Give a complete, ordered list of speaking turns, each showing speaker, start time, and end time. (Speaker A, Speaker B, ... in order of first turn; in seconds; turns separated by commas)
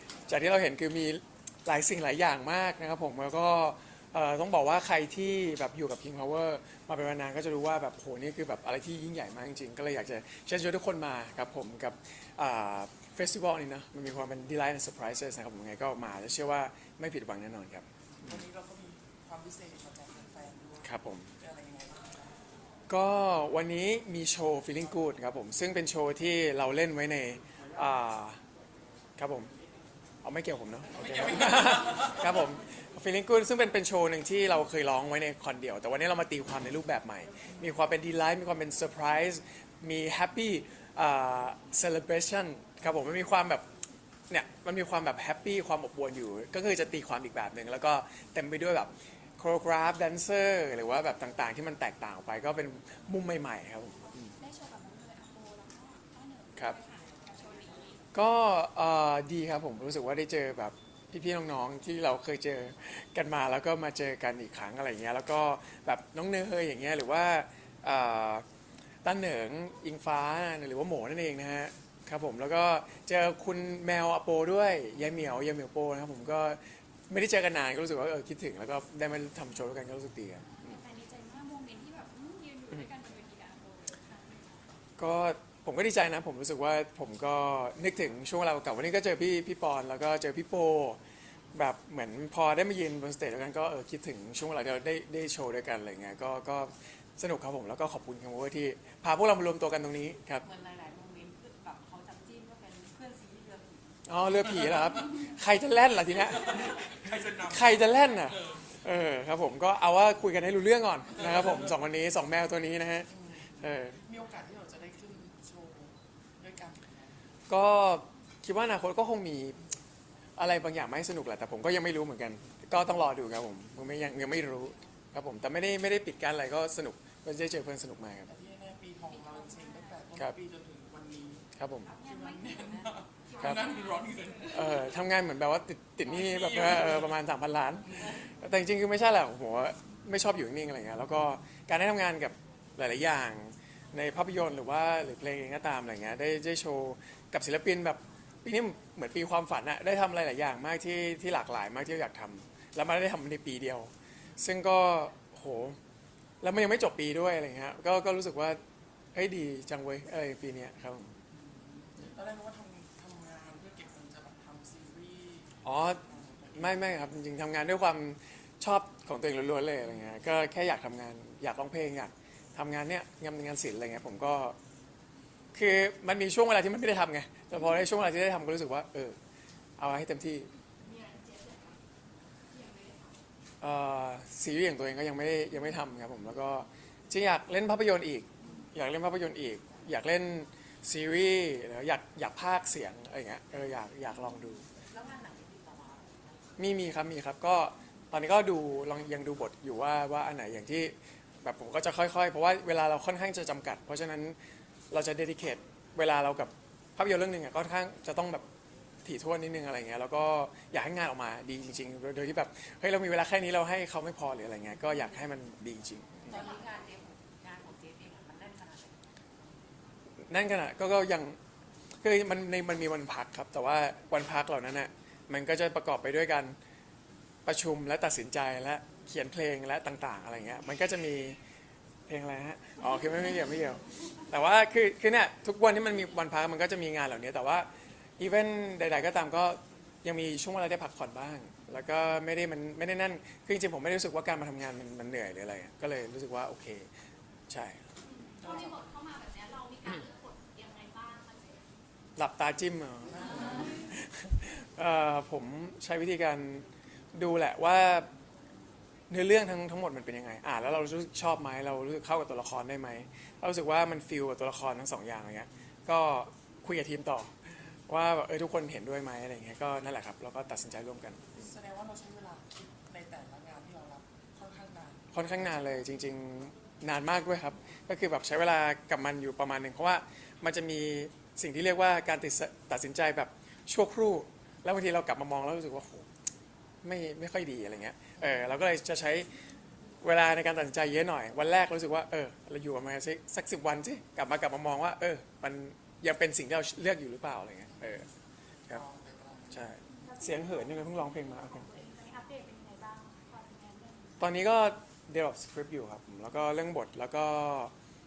Speaker A: 0.2-18.4, Speaker B: 18.3-20.8, Speaker A: 20.8-21.3, Speaker B: 21.4-22.3, Speaker A: 22.9-28.4, Speaker A: 29.2-29.5, Speaker A: 30.2-43.6, Speaker B: 30.9-32.2, Speaker A: 44.3-54.3, Speaker C: 54.4-58.0, Speaker A: 58.1-68.4, Speaker A: 69.0-80.8, Speaker C: 80.6-84.6, Speaker A: 85.0-91.0, Speaker A: 91.5-100.5, Speaker D: 100.4-104.0, Speaker A: 104.0-114.0, Speaker B: 107.0-107.6, Speaker B: 113.2-113.5, Speaker B: 114.0-115.9, Speaker B: 116.4-117.0, Speaker A: 117.5-119.6, Speaker A: 120.4-128.3, Speaker B: 128.3-134.8, Speaker A: 131.6-131.9, Speaker C: 132.2-132.6, Speaker D: 132.6-133.4, Speaker A: 133.3-133.7, Speaker A: 134.5-155.8, Speaker B: 136.1-137.1, Speaker A: 156.4-158.6, Speaker A: 159.1-161.1, Speaker B: 161.3-165.5, Speaker A: 165.6-166.0, Speaker A: 166.5-174.6, Speaker A: 175.5-179.2, Speaker A: 179.8-180.5, Speaker C: 180.8-181.8, Speaker C: 182.5-183.1, Speaker A: 183.6-194.6, Speaker D: 194.8-196.4, Speaker A: 196.6-204.3, Speaker A: 204.9-208.4, Speaker A: 209.0-216.5, Speaker D: 216.3-219.0, Speaker A: 220.3-221.4, Speaker A: 222.0-226.6, Speaker A: 227.4-231.4, Speaker A: 232.1-246.9, Speaker A: 247.5-247.8, Speaker C: 248.1-251.7, Speaker B: 248.4-248.7, Speaker A: 252.2-258.1, Speaker B: 253.1-253.7, Speaker A: 259.1-267.3, Speaker A: 267.9-271.5, Speaker B: 271.4-275.0, Speaker A: 275.1-286.1, Speaker A: 286.8-289.3, Speaker A: 290.0-298.1, Speaker B: 298.8-299.5, Speaker A: 299.5-301.7, Speaker C: 299.9-304.2, Speaker A: 304.2-307.7